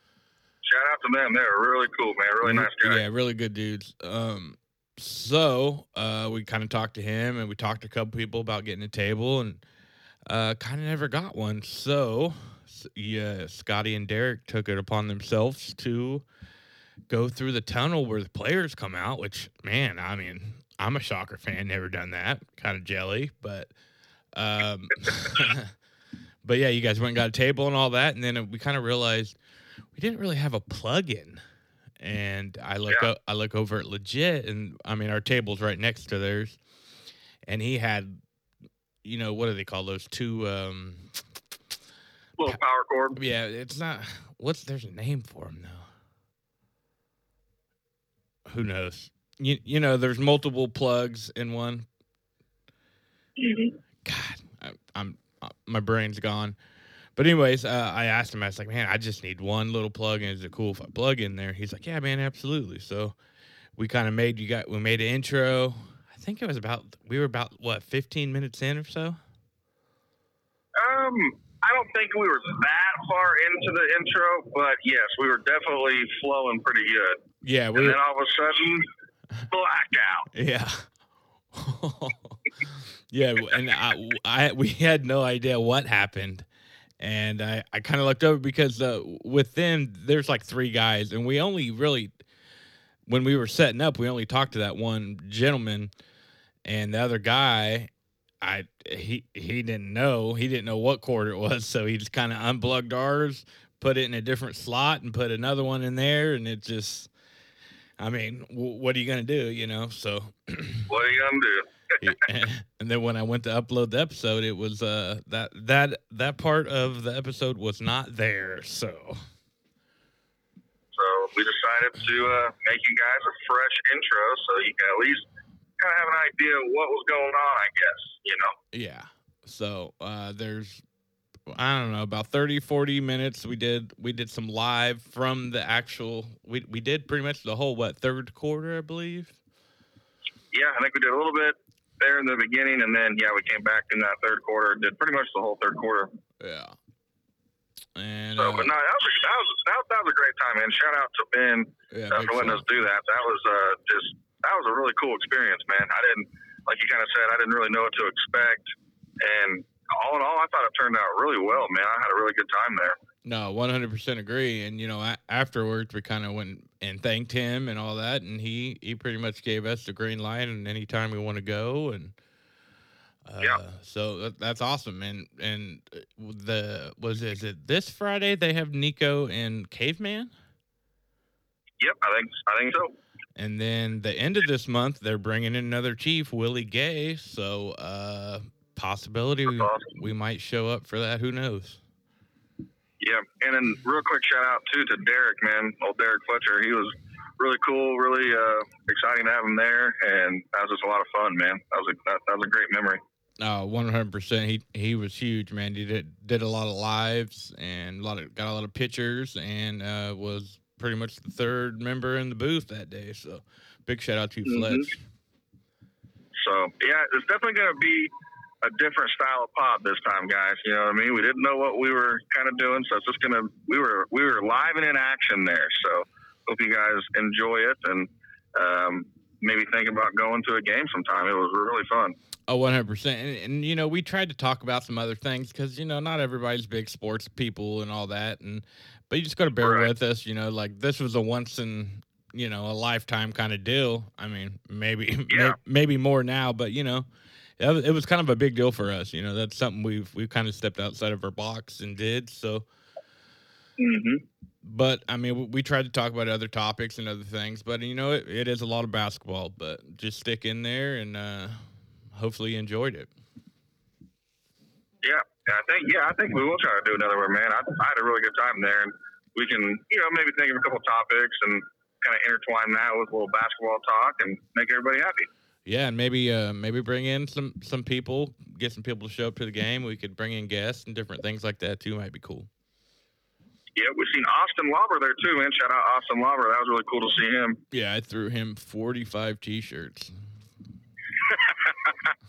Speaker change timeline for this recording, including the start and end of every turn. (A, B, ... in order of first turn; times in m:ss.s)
0:00.6-0:03.0 A
0:02.4-0:09.6 B
0:10.3-0:16.2 B
0:17.1-0:23.7 B
0:24.4-0:25.7 B
0:26.4-0:29.4 B
0:30.0-0:31.4 B
0:32.0-0:36.6 B
0:37.5-0:38.2 B
0:39.0-0:41.0 B
0:42.4-0:43.2 A
0:43.2-0:45.8 B
0:48.5-0:51.9 B
0:53.4-0:53.8 A
0:54.0-0:56.6 B
0:57.2-1:03.2 B
1:03.8-1:09.2 B
1:10.8-1:17.2 A
1:17.4-1:18.0 B
1:17.8-1:18.9 A
1:19.5-1:20.3 A
1:20.3-1:20.8 B
1:21.5-1:22.4 B
1:23.1-1:26.4 B
1:27.0-1:32.1 B
1:33.1-1:35.9 B
1:36.6-1:37.9 B
1:38.4-1:47.1 B
1:48.0-1:50.9 B
1:50.9-1:51.7 A
1:52.0-1:59.2 B
2:00.9-2:05.2 A
2:05.8-2:08.5 A
2:08.7-2:10.8 B
2:11.5-2:19.4 B
2:20.5-2:26.1 A
2:26.4-2:26.8 B
2:28.0-2:28.7 B
2:28.4-2:43.0 A
2:31.9-2:32.6 B
2:43.2-2:52.1 B
2:53.3-3:00.3 B
3:01.8-3:02.9 A
3:03.4-3:11.8 B
3:09.5-3:09.9 A
3:13.0-3:23.0 A
3:23.4-3:34.9 B
3:34.5-3:34.9 A
3:36.4-3:38.1 A
3:38.6-3:52.2 A
3:52.5-4:07.1 B
3:59.6-3:59.9 A
4:05.3-4:05.6 A
4:07.6-4:12.7 B
4:13.8-4:14.2 A
4:14.6-4:21.6 B
4:22.1-4:23.1 B
4:25.0-4:35.3 A
4:35.7-4:42.5 B
4:43.8-4:47.6 A
4:47.7-4:50.1 B
4:51.3-4:51.9 A